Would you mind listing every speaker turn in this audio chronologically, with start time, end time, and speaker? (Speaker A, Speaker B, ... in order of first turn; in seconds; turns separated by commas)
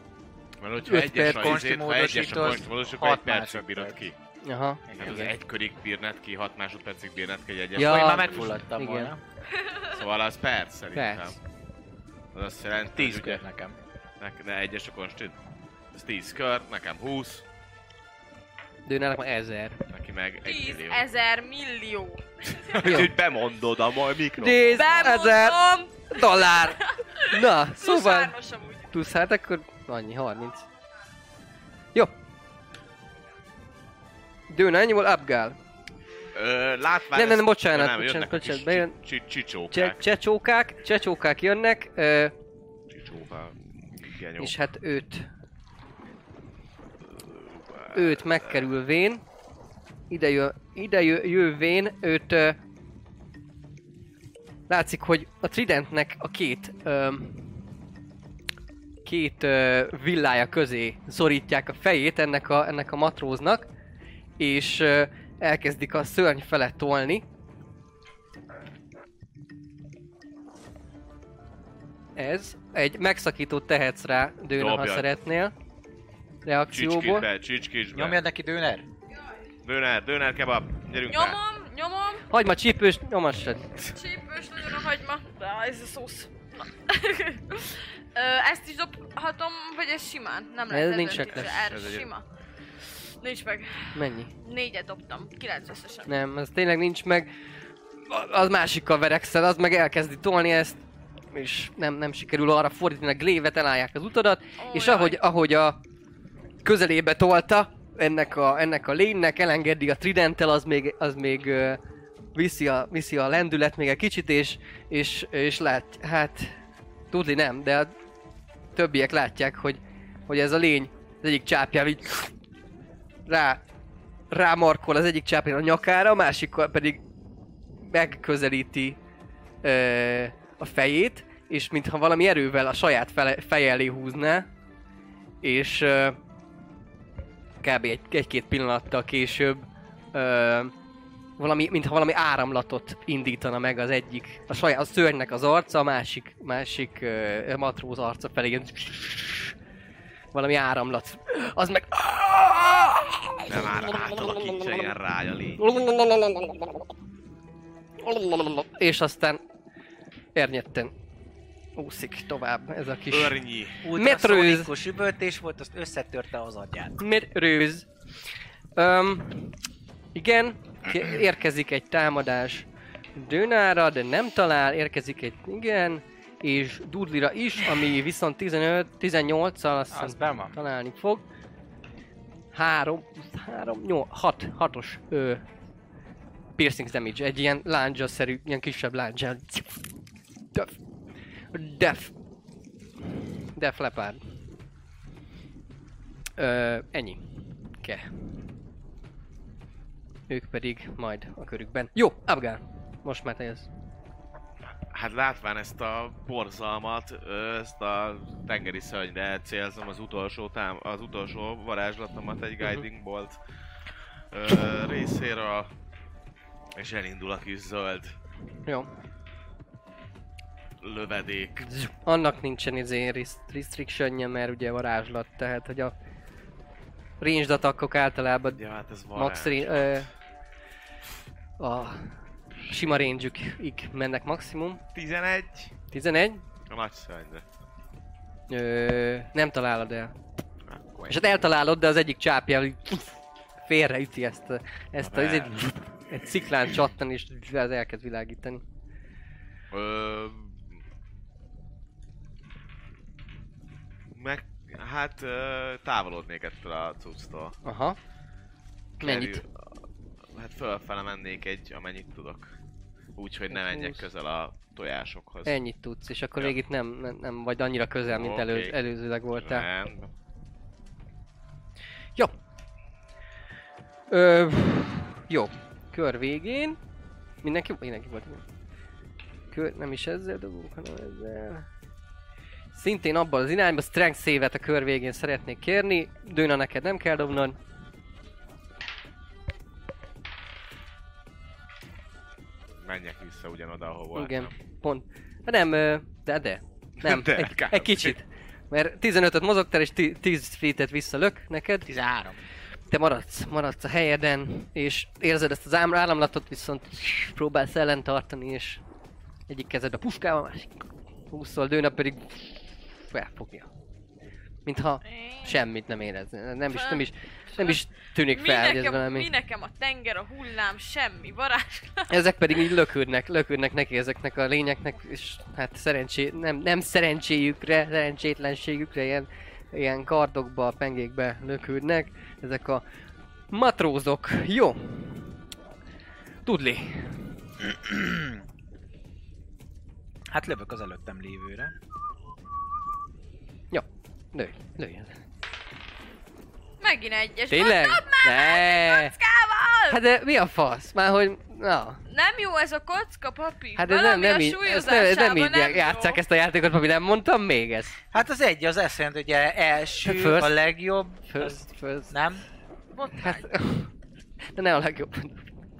Speaker A: 0.6-4.2, Speaker B: 0.8-1.6, Speaker C: 1.2-4.0, Speaker B: 4.4-5.3, Speaker C: 4.9-5.2, Speaker A: 4.9-8.6, Speaker B: 7.8-9.1, Speaker C: 7.8-9.2, Speaker D: 9.5-9.9, Speaker A: 9.9-11.4, Speaker B: 10.9-11.4, Speaker A: 12.3-13.4, Speaker C: 12.9-13.8, Speaker A: 14.2-15.4, Speaker A: 15.9-17.4, Speaker B: 18.9-19.8, Speaker A: 19.9-21.0, Speaker D: 20.4-22.9, Speaker A: 22.5-24.9, Speaker B: 22.8-23.1, Speaker B: 24.4-28.4, Speaker D: 24.7-28.9, Speaker B: 28.9-30.6, Speaker B: 34.5-35.5, Speaker A: 36.4-40.0, Speaker B: 37.1-39.0, Speaker B: 39.7-42.3, Speaker A: 42.9-44.5, Speaker B: 44.4-45.3, Speaker A: 47.0-48.6, Speaker B: 47.9-49.2, Speaker B: 50.1-52.6, Speaker B: 54.7-57.7, Speaker B: 59.0-63.7, Speaker B: 64.4-67.2, Speaker B: 72.2-75.5, Speaker A: 74.6-75.1, Speaker B: 76.5-77.3, Speaker A: 76.7-78.2, Speaker C: 77.9-78.8, Speaker A: 79.6-81.4, Speaker D: 81.1-82.2, Speaker B: 82.3-83.8, Speaker D: 83.9-92.2, Speaker B: 90.7-91.5, Speaker A: 91.1-92.1, Speaker D: 93.2-96.1, Speaker B: 93.9-94.3, Speaker B: 96.1-97.3, Speaker B: 98.0-100.8, Speaker B: 101.3-105.8, Speaker D: 104.6-105.2, Speaker B: 106.6-111.8, Speaker B: 112.3-116.5, Speaker B: 117.1-117.9, Speaker B: 118.7-122.3, Speaker B: 123.3-123.6, Speaker B: 124.3-127.0, Speaker B: 127.8-129.0, Speaker B: 129.6-134.5, Speaker B: 135.4-136.2, Speaker B: 137.6-140.7, Speaker B: 141.4-149.5, Speaker B: 150.3-153.9, Speaker A: 153.5-155.6, Speaker B: 155.6-156.8, Speaker B: 158.0-159.4, Speaker B: 160.3-160.9, Speaker B: 161.8-163.4, Speaker A: 163.1-163.8, Speaker C: 163.8-167.0, Speaker B: 163.9-164.7, Speaker B: 167.0-167.9, Speaker B: 168.8-169.6, Speaker B: 170.1-181.2, Speaker C: 179.9-180.6, Speaker B: 182.5-185.4, Speaker B: 186.6-189.8, Speaker B: 191.5-192.1, Speaker B: 193.1-194.4, Speaker B: 196.4-197.2, Speaker B: 197.8-198.2, Speaker B: 200.3-203.7, Speaker A: 204.9-213.4, Speaker A: 214.3-215.7, Speaker A: 216.8-218.1, Speaker A: 220.8-221.7, Speaker B: 221.6-225.9, Speaker B: 227.2-228.6, Speaker A: 228.6-230.0, Speaker B: 229.1-230.1, Speaker B: 231.6-232.1, Speaker B: 232.7-234.8, Speaker A: 234.9-235.7, Speaker B: 235.9-236.4, Speaker A: 236.7-237.4, Speaker B: 238.5-240.1, Speaker A: 240.7-241.2, Speaker B: 241.1-248.6, Speaker A: 245.1-245.6, Speaker A: 249.7-250.8, Speaker A: 254.1-257.6, Speaker B: 257.6-258.0, Speaker A: 259.0-259.6, Speaker B: 259.0-259.4, Speaker A: 260.3-262.5, Speaker A: 263.2-265.6, Speaker B: 263.5-264.0, Speaker B: 265.4-269.7, Speaker A: 268.1-268.7, Speaker A: 269.4-270.1, Speaker B: 274.1-276.8, Speaker B: 277.4-278.4, Speaker B: 279.5-281.7, Speaker B: 282.7-287.6, Speaker A: 292.8-294.5, Speaker B: 294.1-301.9, Speaker A: 297.0-298.1, Speaker C: 301.9-302.4, Speaker B: 302.9-308.8, Speaker B: 309.5-313.7, Speaker B: 314.6-319.3, Speaker D: 315.1-315.6, Speaker D: 316.7-322.1, Speaker B: 322.1-332.8, Speaker B: 333.5-335.4, Speaker B: 336.4-337.2, Speaker C: 337.8-338.4, Speaker C: 340.3-341.7, Speaker B: 343.7-345.1, Speaker D: 346.8-350.0, Speaker B: 347.5-349.1, Speaker B: 349.9-352.0, Speaker D: 352.1-356.2, Speaker B: 353.8-357.9, Speaker C: 358.1-362.4, Speaker B: 360.0-360.5, Speaker B: 361.3-362.1, Speaker D: 362.9-363.5, Speaker B: 363.2-363.9, Speaker B: 364.5-365.4